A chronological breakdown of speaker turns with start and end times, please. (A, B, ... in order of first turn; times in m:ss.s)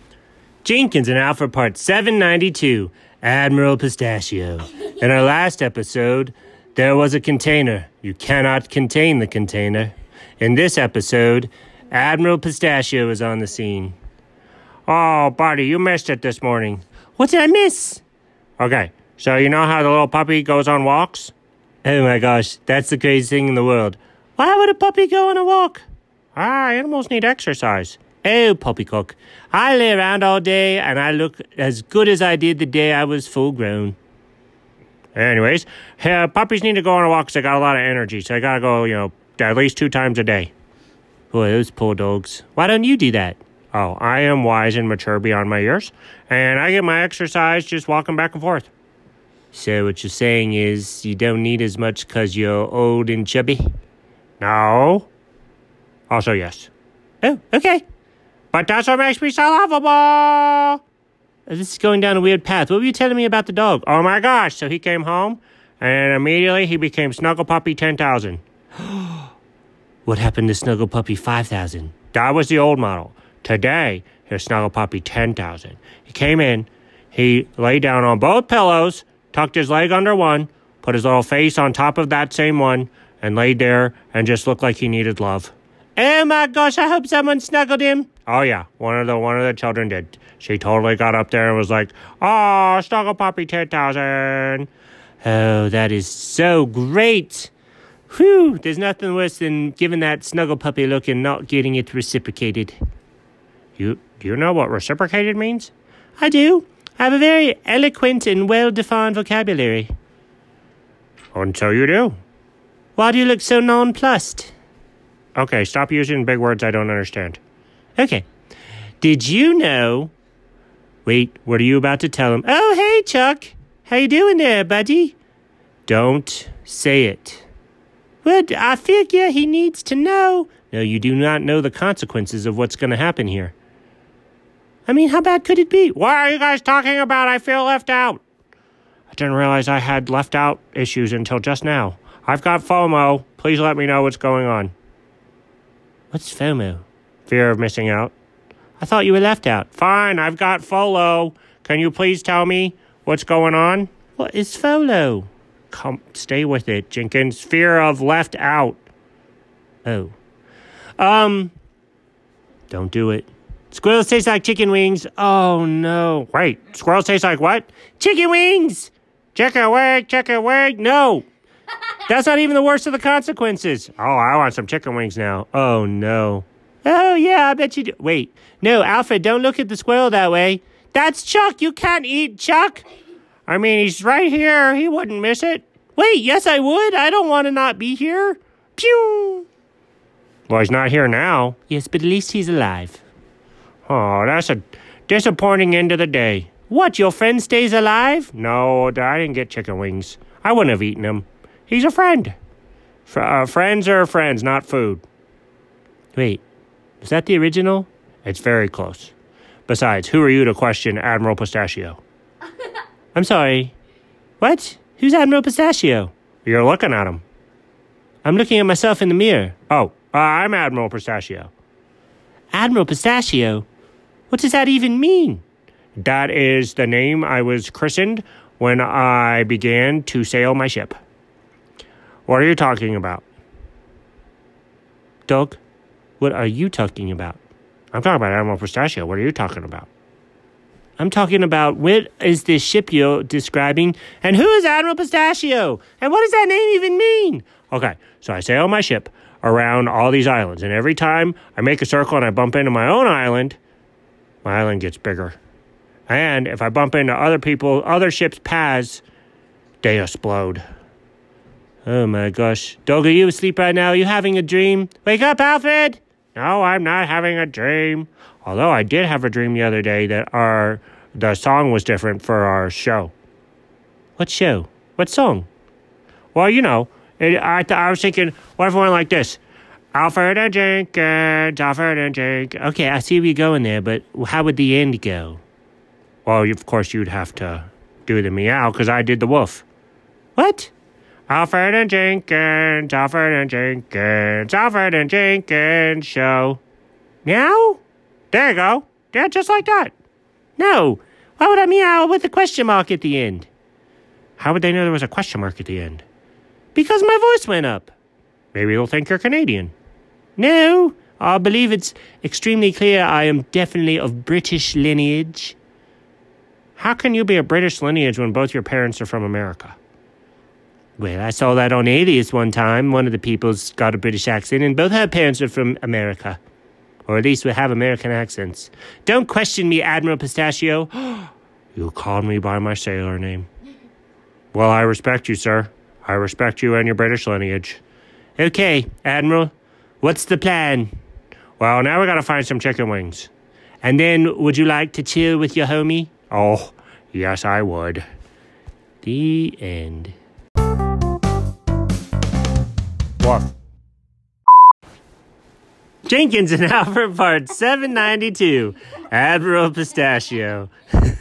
0:00.6-0:14.0 A
0:14.9-0:18.0 A
0:18.6-0:25.8 A
0:26.4-0:34.0 A
0:35.2-0:40.5 A
0:41.3-0:48.7 A
0:49.5-0:53.6 A
0:54.4-0:55.1 A
0:56.1-0:56.7 A
0:57.2-0:57.8 A
0:58.5-1:00.8 A
1:01.5-1:09.3 A
1:10.1-1:34.7 A
1:35.2-1:37.5 A
1:38.1-1:42.8 A
1:43.8-1:49.9 A
1:51.3-1:52.2 A
1:53.0-1:54.5 A
1:55.4-1:57.4 A
1:58.0-1:58.2 A
1:59.0-2:00.1 A
2:01.0-2:05.2 A
2:05.9-2:07.4 A
2:08.2-2:13.5 A
2:14.9-2:18.2 A
2:19.1-2:24.7 A
2:26.1-2:28.1 A
2:28.8-2:38.8 A
2:39.8-2:40.2 A
2:41.0-2:41.5 A
2:42.7-2:51.3 A
2:52.1-3:02.8 A
3:03.5-3:09.5 A
3:10.5-3:13.0 A
3:13.9-3:22.3 A
3:23.1-3:25.0 A
3:26.1-3:26.4 A
3:27.0-3:29.1 A
3:29.7-3:32.0 A
3:33.2-3:33.8 A
3:34.4-3:37.2 A
3:38.2-3:41.5 A
3:42.5-3:43.7 A
3:44.3-3:45.4 A
3:46.0-3:51.0 A
3:52.3-3:53.2 A
3:55.3-3:55.6 A
3:56.2-3:57.4 A
3:57.9-3:59.9 A
4:01.0-4:13.6 A
4:14.4-4:15.4 A
4:16.1-4:19.0 A
4:19.8-4:20.6 A
4:21.8-4:33.1 A
4:34.2-4:35.5 A
4:36.4-4:39.4 A
4:39.9-4:45.4 A
4:46.2-4:49.6 A
4:50.4-4:50.7 A
4:51.3-4:56.6 A
4:57.2-4:59.9 A
5:00.6-5:03.5 A
5:04.4-5:06.0 A
5:06.8-5:07.9 A
5:08.5-5:09.7 A
5:10.4-5:15.6 A
5:16.8-5:19.8 A
5:21.0-5:26.4 A
5:27.1-5:33.5 A
5:34.5-5:37.8 A
5:38.4-5:40.9 A
5:41.6-5:43.3 A
5:43.8-5:48.0 A
5:49.0-5:50.2 A
5:56.1-6:00.7 A